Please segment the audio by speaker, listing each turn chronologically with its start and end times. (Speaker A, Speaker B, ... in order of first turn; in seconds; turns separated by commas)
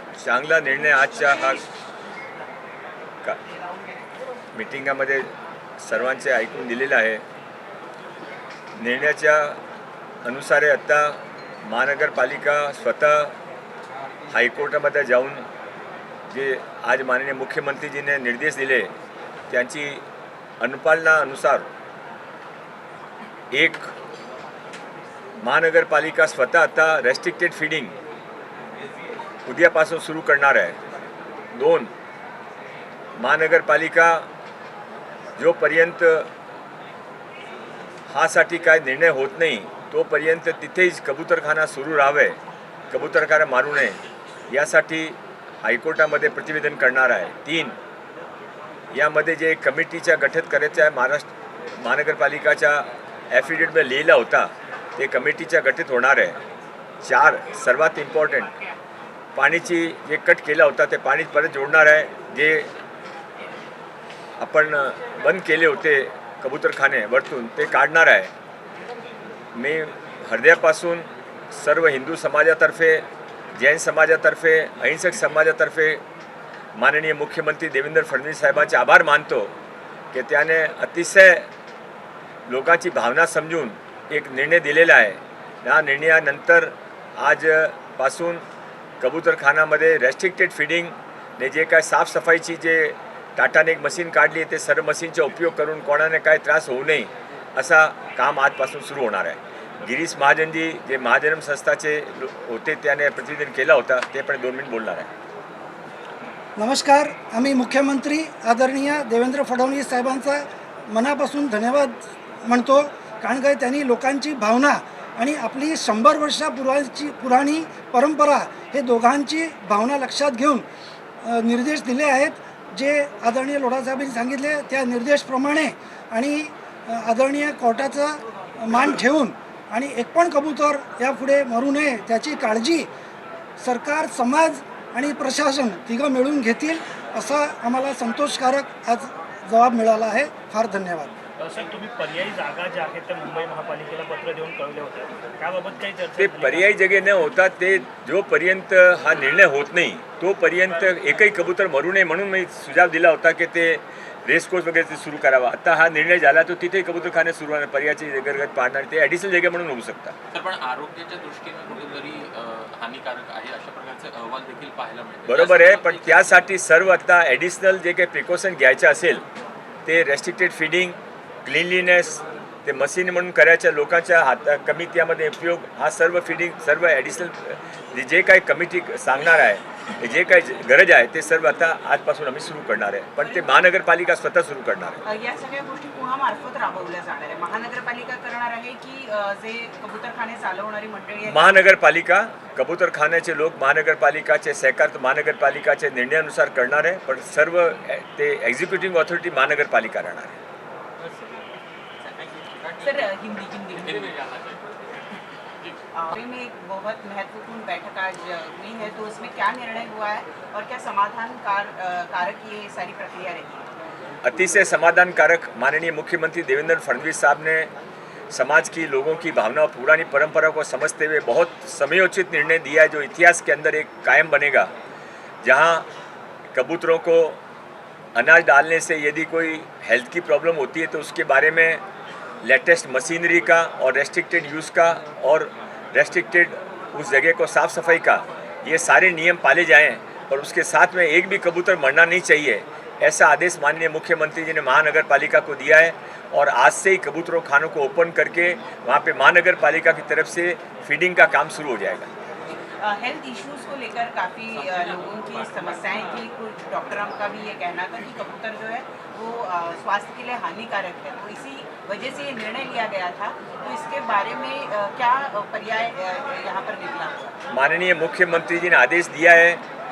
Speaker A: 0.2-1.6, Speaker A: 4.5-7.2, Speaker A: 8.8-9.6, Speaker A: 10.2-13.3, Speaker A: 14.3-15.5, Speaker A: 16.3-18.9, Speaker A: 19.5-20.0, Speaker A: 20.6-21.7, Speaker A: 23.5-23.9, Speaker A: 25.4-27.9, Speaker A: 29.4-30.8, Speaker A: 31.6-31.9, Speaker A: 33.2-34.3, Speaker A: 35.4-36.3, Speaker A: 38.1-42.4, Speaker A: 42.9-47.8, Speaker A: 48.9-56.4, Speaker A: 57.0-58.5, Speaker A: 59.4-62.7, Speaker A: 64.4-68.3, Speaker A: 69.5-76.0, Speaker A: 76.8-79.5, Speaker A: 80.1-81.5, Speaker A: 82.5-88.4, Speaker A: 89.0-105.1, Speaker B: 106.6-120.7, Speaker B: 121.2-132.9, Speaker B: 133.6-141.1, Speaker C: 141.4-146.7, Speaker A: 146.2-160.2, Speaker D: 160.3-166.5, Speaker A: 165.3-169.2, Speaker A: 169.8-185.0, Speaker E: 183.2-183.5, Speaker E: 185.1-191.6, Speaker A: 191.2-200.4, Speaker D: 201.0-201.4, Speaker D: 202.0-203.2, Speaker E: 202.8-204.1, Speaker D: 203.7-204.8, Speaker E: 205.9-213.7, Speaker A: 214.2-217.7, Speaker A: 218.3-224.7, Speaker A: 225.4-225.9, Speaker A: 226.5-227.4, Speaker A: 228.2-231.8, Speaker A: 232.4-252.1, Speaker E: 252.5-267.4, Speaker A: 267.5-269.6